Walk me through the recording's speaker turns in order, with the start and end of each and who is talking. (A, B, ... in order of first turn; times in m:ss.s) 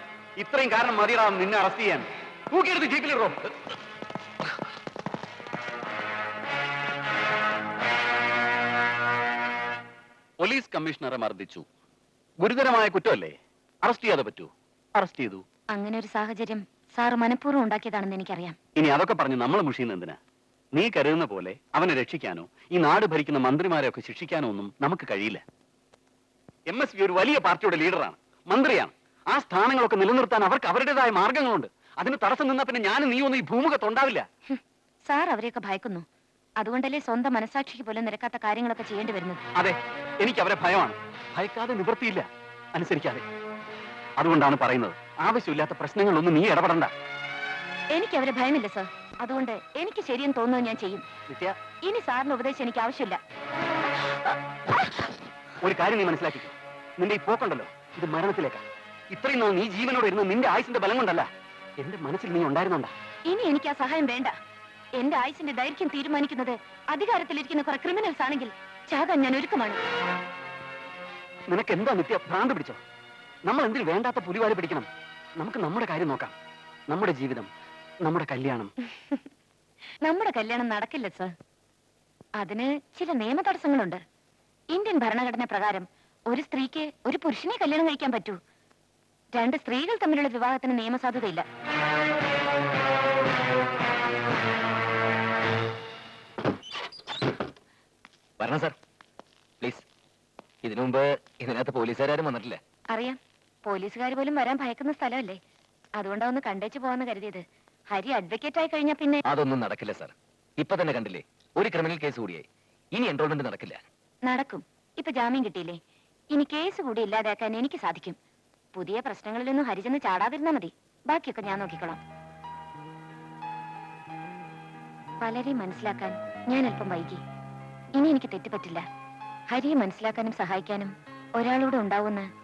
0:00.4-0:03.5 A
0:10.4-0:11.7 A
0:12.4-0:15.4 A
0:15.7-0:18.6 B
0:18.8-0:20.2 A
0:20.7-0:25.4 A
0:26.7-0:34.3 A
0:34.5-0:36.0 B
0:36.6-0:39.4 B
0:39.6-0:43.2 A
0:44.2-0:46.9 A
0:47.9-0:51.0 B
0:51.3-0:51.6 A
0:51.8-0:53.2 B
0:55.6-1:01.3 A
1:01.8-1:02.9 A
1:03.3-1:04.3 B
1:05.0-1:09.8 B
1:11.5-1:12.8 A
1:13.5-1:14.9 A
1:15.4-1:16.4 A
1:16.9-1:17.5 A
1:18.0-1:18.7 A
1:18.9-1:19.2 B
1:20.0-1:21.3 B
1:22.4-1:24.0 B
1:24.7-1:28.4 B
1:29.3-1:31.4 B
1:38.4-1:38.7 C
1:39.6-1:39.9 C
1:40.6-1:42.6 C
1:42.9-1:45.4 B
1:46.0-1:49.2 B
1:49.2-1:53.8 C
1:54.3-1:55.8 B
1:56.3-1:58.2 B
1:58.7-2:02.0 B
2:05.2-2:07.2 B
2:08.0-2:08.8 B
2:09.5-2:12.3 B